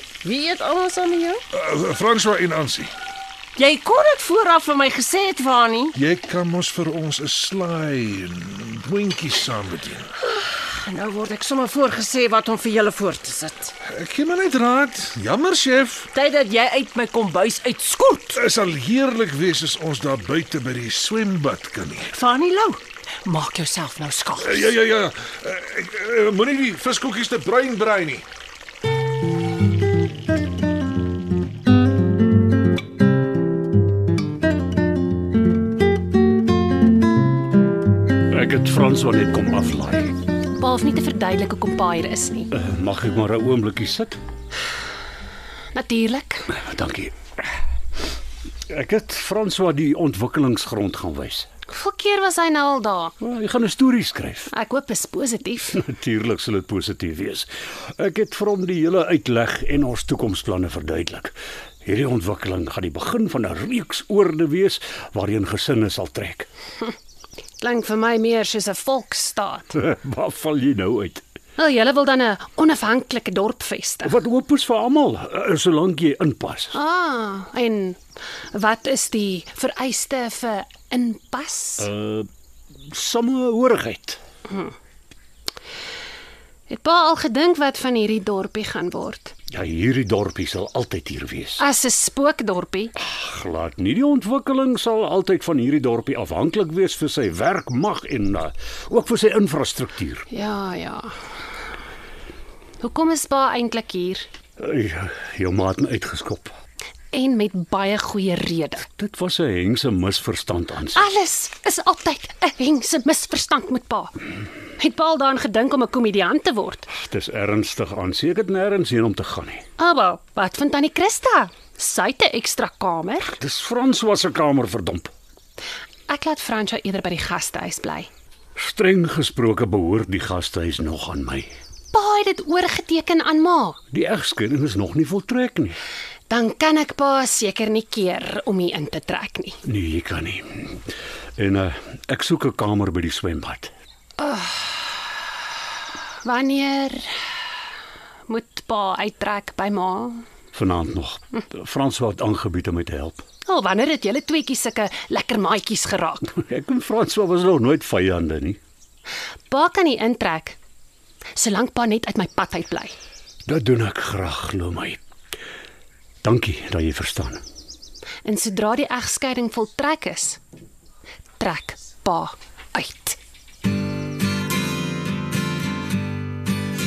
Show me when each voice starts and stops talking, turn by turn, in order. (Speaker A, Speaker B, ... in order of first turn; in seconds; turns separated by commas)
Speaker A: 0.2-1.4, Speaker B: 1.5-2.9, Speaker A: 3.6-5.9, Speaker B: 5.9-10.1, Speaker A: 10.2-13.7, Speaker B: 13.8-16.1, Speaker A: 16.1-18.4, Speaker B: 18.3-22.1, Speaker A: 22.1-24.7, Speaker B: 24.4-28.2, Speaker C: 38.3-40.2, Speaker D: 40.5-42.5, Speaker C: 42.5-44.2, Speaker D: 45.7-46.5, Speaker C: 46.5-47.1, Speaker C: 48.7-51.5, Speaker D: 51.7-53.1, Speaker C: 53.2-54.5, Speaker D: 54.5-55.8, Speaker C: 55.7-66.5, Speaker D: 67.6-69.7, Speaker C: 69.7-71.2, Speaker D: 71.6-74.2, Speaker C: 74.0-76.8, Speaker D: 76.7-78.0, Speaker D: 78.5-81.9, Speaker C: 81.8-82.3, Speaker C: 82.9-84.2, Speaker D: 84.5-84.7, Speaker D: 86.7-89.3, Speaker C: 89.5-91.6, Speaker D: 91.6-92.9, Speaker C: 93.0-100.2, Speaker D: 100.3-101.1, Speaker D: 102.8-104.3, Speaker C: 104.6-106.5, Speaker D: 107.1-108.8, Speaker C: 108.9-111.1, Speaker D: 110.9-114.1, Speaker D: 114.8-116.9, Speaker C: 116.9-119.7, Speaker D: 119.8-123.3, Speaker C: 123.3-125.1, Speaker D: 126.1-128.1, Speaker C: 128.6-131.5, Speaker D: 131.9-133.8, Speaker C: 133.9-135.8, Speaker D: 136.3-139.6, Speaker C: 139.6-140.8, Speaker C: 141.4-143.7, Speaker D: 144.2-144.8, Speaker D: 146.2-147.1, Speaker D: 148.3-150.2, Speaker C: 150.5-153.2, Speaker D: 153.4-156.3, Speaker C: 156.3-158.6, Speaker D: 159.5-160.6, Speaker D: 161.3-162.9, Speaker C: 163.4-165.0, Speaker C: 166.2-167.4, Speaker D: 168.2-170.4, Speaker D: 171.4-173.2